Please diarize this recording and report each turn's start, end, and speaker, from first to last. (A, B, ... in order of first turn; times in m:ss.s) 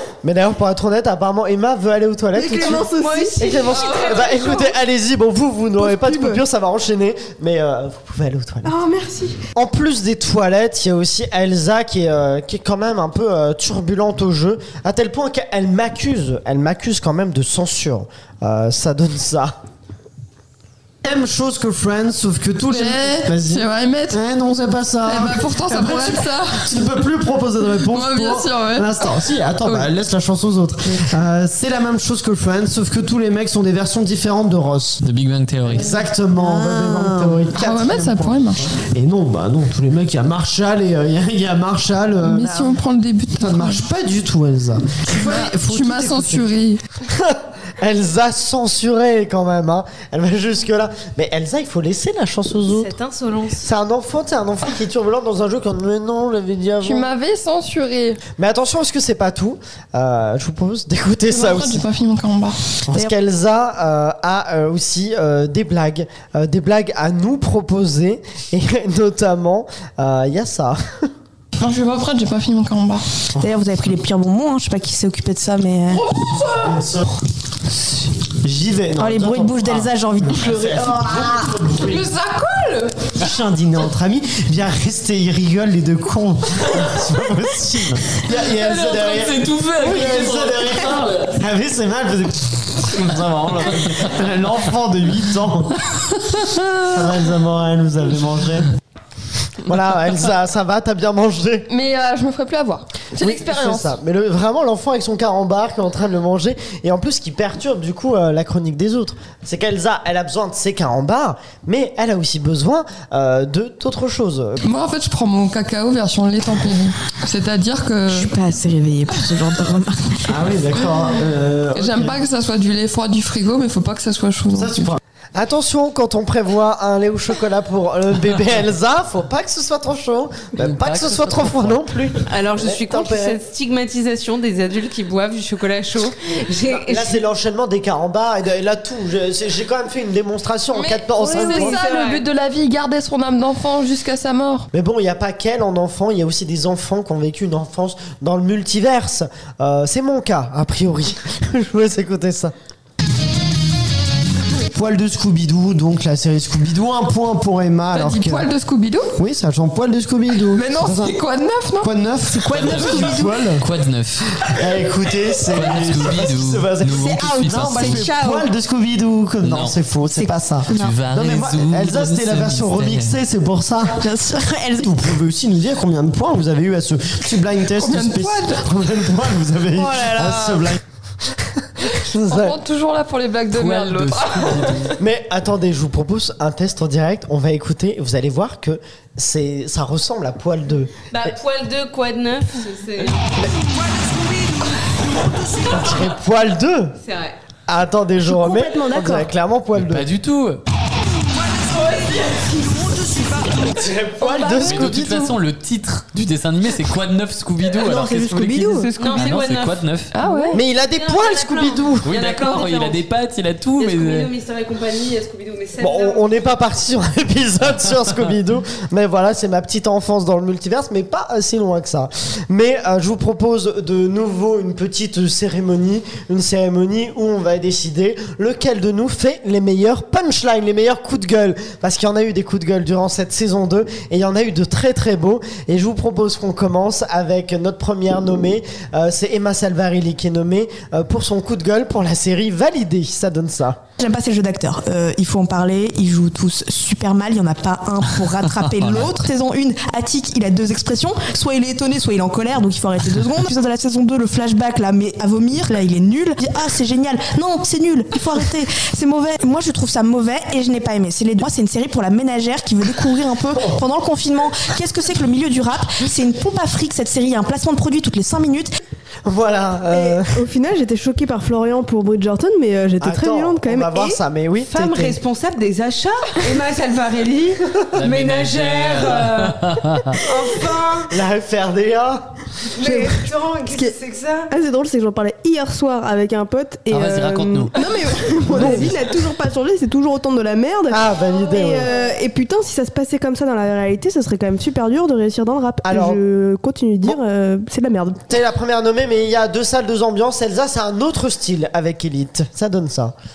0:00.2-0:08.8 A
0:02.3-0:03.7 B
0:02.6-0:04.7 C
0:03.7-0:04.4 D
0:05.8-0:06.4 B
0:08.6-0:09.4 B
0:09.5-0:19.6 A
0:21.0-0:35.0 E
0:22.6-0:24.2 D
0:25.0-0:26.7 D
0:27.9-0:29.0 D
0:29.6-0:29.9 D
0:35.0-0:35.9 F
0:35.7-0:42.6 E
0:35.8-0:37.2 A
0:36.4-0:37.4 G
0:37.6-0:38.6 D
0:42.2-0:43.9 D
0:42.4-0:42.7 G
0:43.4-0:46.5 E
0:45.2-0:46.8 D
0:47.1-0:52.9 A
0:52.7-0:53.6 C
0:53.6-0:57.1 A
0:56.8-0:58.2 D
0:58.4-1:01.8 A
1:01.3-1:02.6 D
1:02.9-1:11.1 A
1:11.6-1:13.0 D
1:13.4-1:16.1 G
1:15.9-1:16.8 D
1:16.6-1:17.1 E
1:18.4-1:22.1 E
1:18.9-1:19.3 A
1:19.0-1:21.6 G
1:21.7-1:23.1 D
1:23.2-1:35.9 E
1:28.7-1:31.2 F
1:36.8-1:38.7 E
1:39.7-1:41.7 A
1:41.7-1:43.9 D
1:43.2-1:54.6 A
1:54.6-1:58.3 D
1:58.1-2:00.5 G
2:00.3-2:02.2 E
2:01.7-2:05.0 D
2:04.6-2:05.0 E
2:05.4-2:13.4 A
2:10.6-2:11.8 F
2:12.3-2:17.2 C
2:16.7-2:21.8 A
2:20.7-2:24.7 D
2:21.2-2:22.2 C
2:24.7-2:32.5 A
2:34.7-2:38.5 E
2:37.9-2:39.2 D
2:39.2-2:41.2 E
2:40.5-2:41.9 D
2:41.8-2:43.7 E
2:42.5-2:44.3 F
2:42.7-2:43.3 B
2:44.4-2:54.1 E
2:45.5-2:48.1 F
2:46.9-2:48.5 G
2:49.4-2:49.8 F
2:50.1-2:51.0 G
2:50.7-2:53.2 F
2:53.9-2:55.2 G
2:54.8-3:00.8 E
2:57.8-2:58.6 D
3:02.0-3:02.6 A
3:02.2-3:04.9 D
3:03.5-3:05.0 F
3:05.0-3:11.3 A
3:11.1-3:16.0 C
3:15.7-3:17.0 A
3:17.0-3:17.4 C
3:17.7-3:20.1 A
3:18.2-3:19.3 B
3:19.8-3:20.6 F
3:21.5-3:23.2 C
3:23.6-3:25.4 A
3:24.3-3:24.7 D
3:24.6-3:30.1 F
3:27.8-3:29.2 B
3:29.0-3:29.8 C
3:30.1-3:30.6 D
3:30.2-3:30.6 B
3:30.5-3:32.1 A
3:30.9-3:33.0 C
3:32.0-3:34.3 F
3:33.8-3:36.5 C
3:35.8-4:03.8 A
4:04.0-4:28.7 G
4:29.2-4:30.4 A
4:29.9-4:34.2 B
4:33.0-4:35.2 A
4:34.7-4:41.2 C
4:37.9-4:40.2 F
4:41.1-4:42.3 A
4:42.8-4:44.5 C
4:42.8-4:43.2 B
4:44.5-4:58.2 B
4:46.9-4:48.2 F
4:48.5-4:48.9 A
4:50.9-4:51.9 A
4:55.8-4:56.2 A
4:58.3-5:03.1 A